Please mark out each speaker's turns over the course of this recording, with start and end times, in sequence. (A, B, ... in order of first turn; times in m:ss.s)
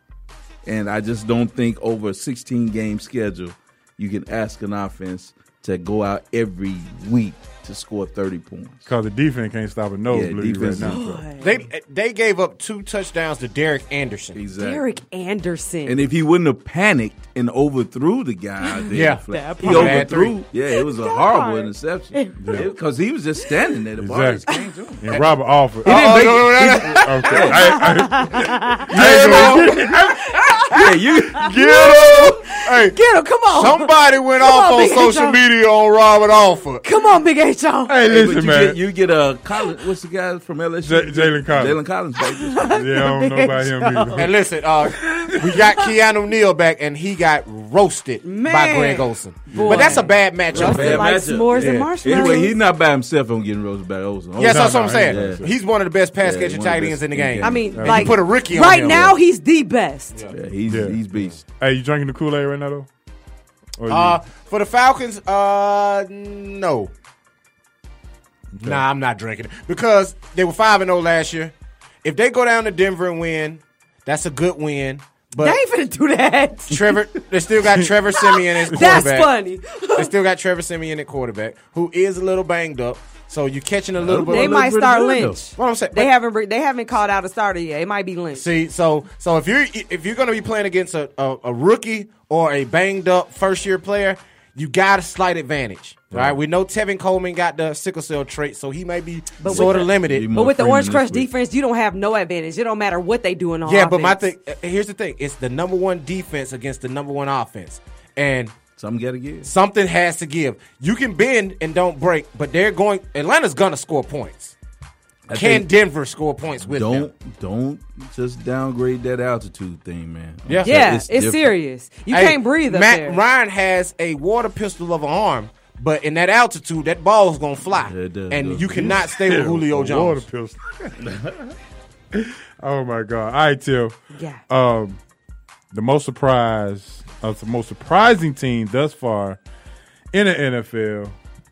0:00.6-0:08.9 A
0:08.9-0:11.2 B
0:10.1-0:11.0 A
0:10.8-0:11.6 C
0:11.4-0:14.4 D
0:14.3-0:14.8 A
0:14.6-0:16.0 C
0:15.8-0:25.1 A
0:18.6-0:20.1 C
0:18.9-0:20.4 D
0:20.8-0:22.6 C
0:22.4-0:22.7 B
0:24.0-0:24.4 B
0:25.0-0:29.8 B
0:25.8-0:27.5 D
0:25.8-0:27.8 A
0:27.3-0:35.4 C
0:28.9-0:30.0 A
0:28.9-0:29.8 D
0:30.7-0:32.3 A
0:31.6-0:33.0 D
0:33.5-0:36.8 D
0:36.8-0:38.0 C
0:37.9-0:38.8 B
0:38.1-0:42.8 A
0:40.8-0:41.8 B
0:42.4-0:44.2 C
0:42.8-0:44.3 B
0:44.2-0:52.4 D
0:48.2-0:52.6 C
0:49.5-0:49.9 A
0:50.5-0:55.4 A
0:54.4-0:59.1 D
0:54.4-0:55.5 B
0:56.2-0:57.9 A
0:57.4-1:00.2 C
0:57.8-0:58.2 B
0:58.9-0:59.2 A
1:00.3-1:01.4 A
1:00.7-1:01.0 B
1:01.6-1:02.9 B
1:03.8-1:04.2 B
1:03.9-1:06.9 D
1:08.5-1:08.8 B
1:08.6-1:11.5 D
1:12.0-1:15.6 D
1:15.4-1:16.9 C
1:16.7-1:19.3 D
1:18.1-1:20.1 C
1:18.7-1:19.0 B
1:20.0-1:24.6 D
1:24.0-1:25.4 A
1:24.3-1:28.5 C
1:25.6-1:26.1 D
1:28.3-1:40.3 D
1:39.4-1:44.2 C
1:39.4-1:41.3 A
1:43.6-1:48.6 D
1:48.8-1:49.5 A
1:49.4-1:54.6 D
1:55.3-1:55.7 A
1:55.3-1:57.1 D
1:56.6-2:01.6 A
2:00.6-2:03.2 C
2:02.1-2:10.2 D
2:07.7-2:09.0 A
2:09.2-2:10.9 B
2:12.2-2:14.0 B
2:14.1-2:14.4 C
2:14.5-2:15.0 B
2:15.7-2:19.4 B
2:20.1-2:21.2 B